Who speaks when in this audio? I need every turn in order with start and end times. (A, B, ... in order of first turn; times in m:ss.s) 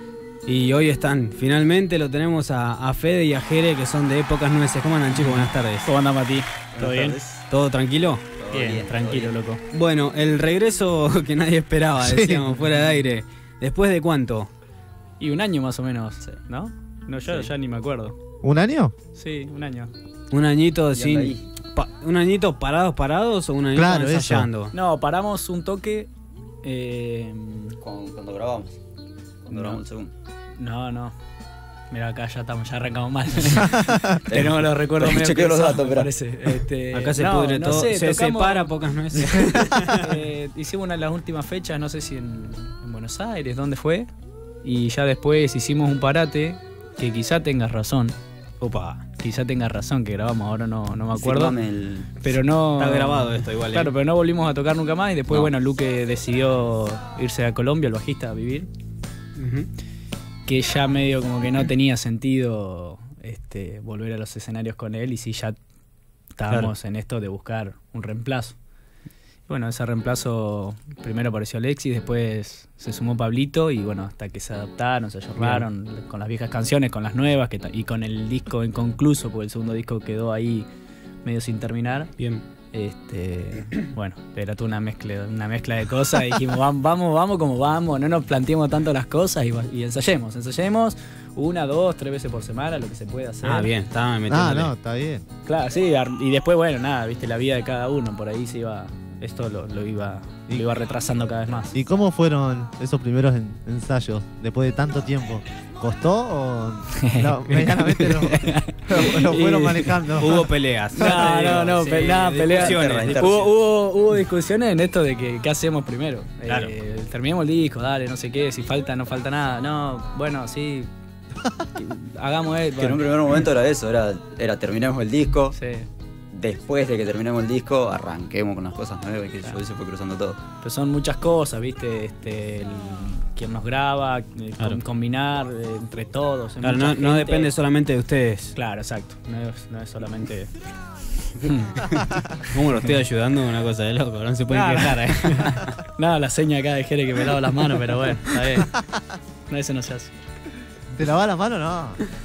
0:00.5-0:05.9 A
0:05.2-0:07.2 B
0:06.8-0:07.5 C
0:07.5-0:08.2 A
0:08.4-0:09.4 C
0:08.5-0:09.6 B
0:09.7-0:14.5 A
0:12.0-0:12.4 D
0:15.2-0:18.2 B
0:18.4-0:18.9 D
0:19.2-0:19.9 B
0:20.3-0:24.7 A
0:20.9-0:21.4 C
0:23.7-0:24.5 D
0:24.7-0:26.1 B
0:26.6-0:27.8 B
0:27.8-0:28.8 C
0:29.4-0:30.1 C
0:29.5-0:29.8 B
0:30.6-0:31.2 B
0:31.9-0:44.1 B
0:33.7-0:34.2 D
0:34.3-0:36.1 C
0:36.9-0:40.1 A
0:44.6-0:48.2 B
0:48.6-0:49.0 A
0:49.2-0:51.6 B
0:51.2-0:52.1 C
0:52.2-0:58.7 B
0:52.8-0:53.9 A
0:59.4-0:59.7 A
1:00.5-1:05.6 B
1:06.4-1:08.6 B
1:09.5-1:20.7 B
1:15.4-1:15.6 A
1:21.2-1:22.1 B
1:22.2-1:22.4 A
1:22.7-1:33.7 B
1:33.4-1:34.7 A
1:34.3-1:35.2 D
1:35.5-1:41.8 B
1:41.7-1:50.5 D
1:47.0-2:00.9 B
1:50.2-1:53.3 A
1:52.5-1:53.5 C
1:56.5-1:56.7 A
2:01.8-2:03.0 B
2:02.8-2:05.6 C
2:05.5-2:05.9 B
2:06.3-2:10.4 C
2:10.6-2:17.5 B
2:16.6-2:18.6 A
2:18.6-2:20.5 B
2:21.4-2:22.8 B
2:22.4-2:25.8 A
2:24.5-2:28.8 B
2:29.5-2:30.1 B
2:30.9-2:32.0 D